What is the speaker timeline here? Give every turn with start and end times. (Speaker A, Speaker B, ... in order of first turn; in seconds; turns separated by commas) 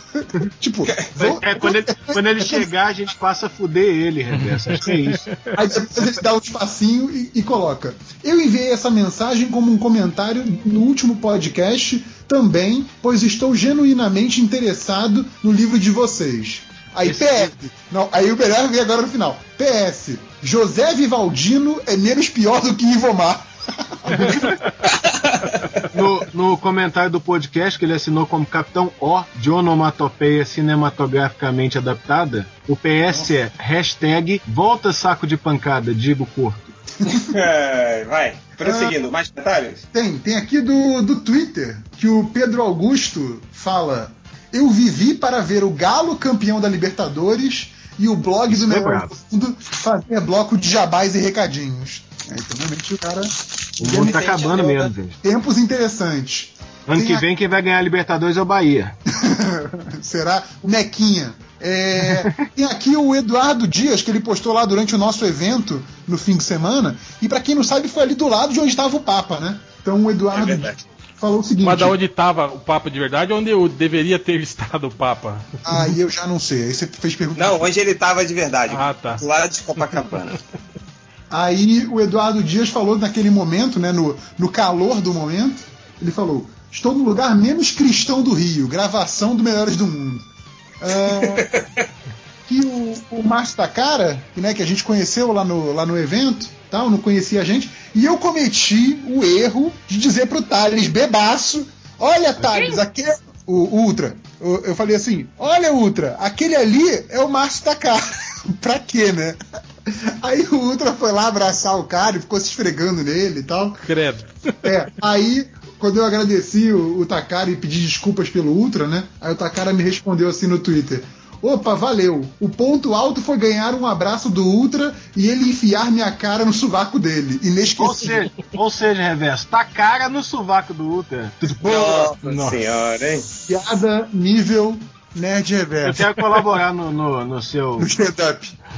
Speaker A: 0.6-2.7, Speaker B: 1.1-5.2, Speaker C: 4.4-5.5, Speaker A: 5.5-23.5, Speaker B: 17.0-17.5, Speaker A: 24.0-24.5, Speaker B: 25.9-36.7, Speaker D: 37.3-39.8, Speaker A: 38.6-39.0, Speaker A: 39.9-53.3, Speaker B: 48.5-49.1, Speaker B: 53.8-55.2, Speaker D: 53.9-54.9, Speaker A: 55.2-57.2, Speaker B: 56.9-59.0, Speaker A: 59.2-72.0, Speaker B: 62.1-62.5, Speaker D: 70.3-70.8, Speaker C: 71.6-75.4, Speaker A: 75.6-77.7, Speaker D: 77.4-80.3, Speaker C: 78.7-79.2, Speaker A: 81.3-90.2, Speaker A: 90.8-91.5, Speaker A: 92.5-108.0, Speaker A: 108.5-109.4, Speaker A: 110.2-113.8, Speaker C: 113.8-114.5, Speaker A: 114.6-128.1, Speaker B: 127.8-131.7, Speaker A: 131.6-132.0, Speaker D: 131.7-133.2, Speaker C: 132.2-132.6, Speaker A: 133.4-136.1, Speaker B: 135.9-137.9, Speaker A: 137.8-138.6